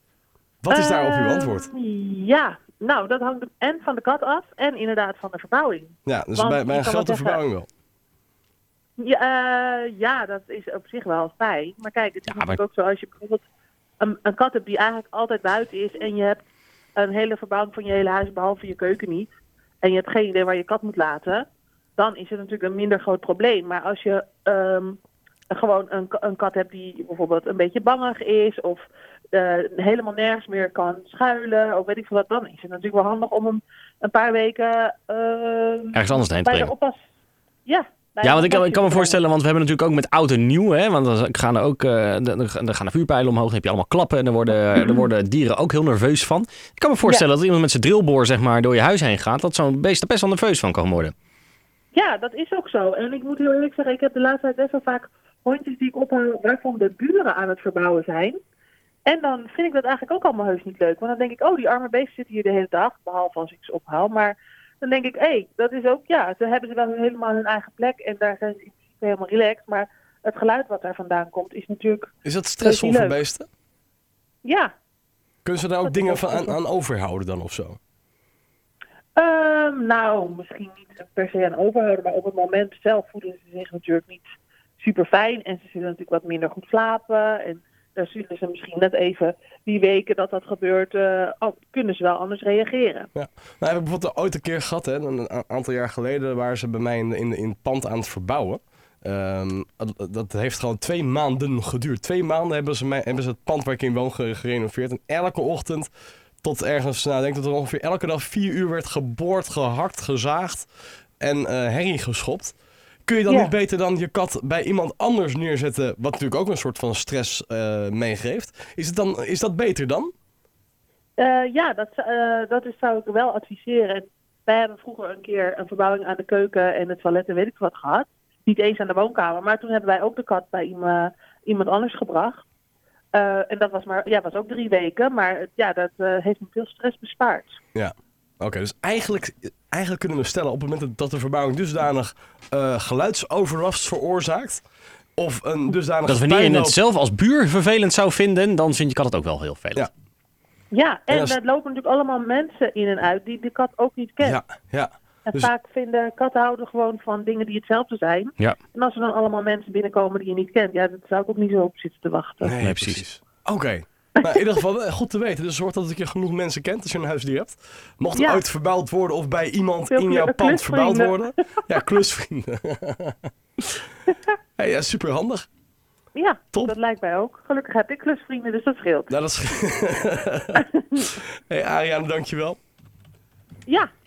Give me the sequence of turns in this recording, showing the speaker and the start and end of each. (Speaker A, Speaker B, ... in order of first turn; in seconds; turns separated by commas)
Speaker A: 0.6-1.7, Speaker B: 0.7-7.4, Speaker A: 6.1-7.7, Speaker B: 9.0-13.4, Speaker C: 12.3-12.6, Speaker B: 14.0-16.4, Speaker B: 17.0-19.3, Speaker B: 19.8-21.5, Speaker B: 22.0-25.0, Speaker B: 25.5-37.0, Speaker C: 35.9-36.7, Speaker B: 37.7-39.2, Speaker C: 38.2-51.1, Speaker B: 44.8-45.0, Speaker B: 51.9-58.4, Speaker B: 59.1-73.2, Speaker A: 72.2-73.5, Speaker B: 74.4-74.7, Speaker A: 75.5-77.8, Speaker B: 75.8-76.6, Speaker B: 79.2-84.2, Speaker B: 84.8-93.1, Speaker A: 93.2-105.9, Speaker A: 106.4-110.7, Speaker A: 111.2-120.1, Speaker B: 121.2-132.4, Speaker B: 133.1-137.6, Speaker A: 137.8-144.6, Speaker A: 145.2-146.8, Speaker C: 146.1-149.9, Speaker B: 150.7-154.4, Speaker A: 151.1-151.4, Speaker A: 154.2-155.5, Speaker B: 155.3-162.6, Speaker A: 162.4-173.3, Speaker C: 162.6-163.0, Speaker B: 168.2-168.4, Speaker B: 169.9-171.6, Speaker A: 174.6-175.5, Speaker B: 176.2-179.1, Speaker A: 179.1-182.6, Speaker B: 180.6-181.0